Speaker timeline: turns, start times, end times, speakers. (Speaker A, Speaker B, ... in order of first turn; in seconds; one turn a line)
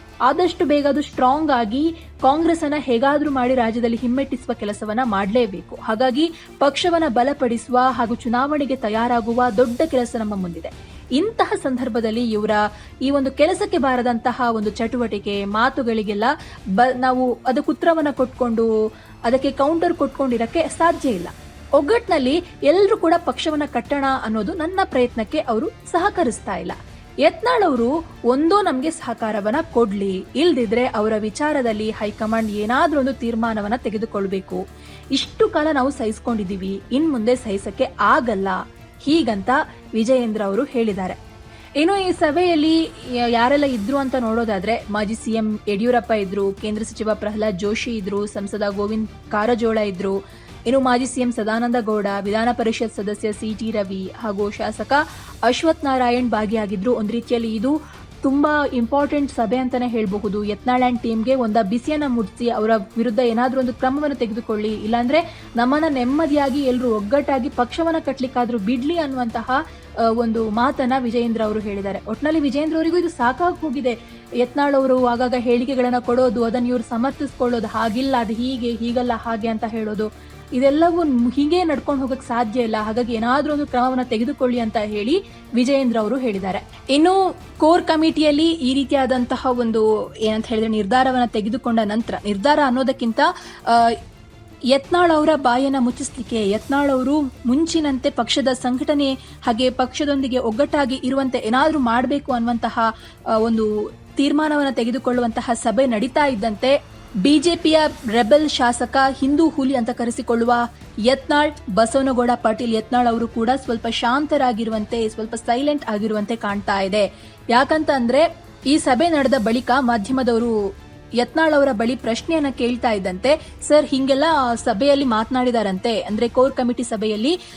Speaker A: 0.3-18.7
Speaker A: 19.3-34.6
Speaker A: 35.1-41.2
Speaker A: 41.8-69.6
Speaker A: 70.2-94.0
Speaker A: 94.7-102.9
Speaker A: 103.4-120.5
Speaker A: 121.2-127.3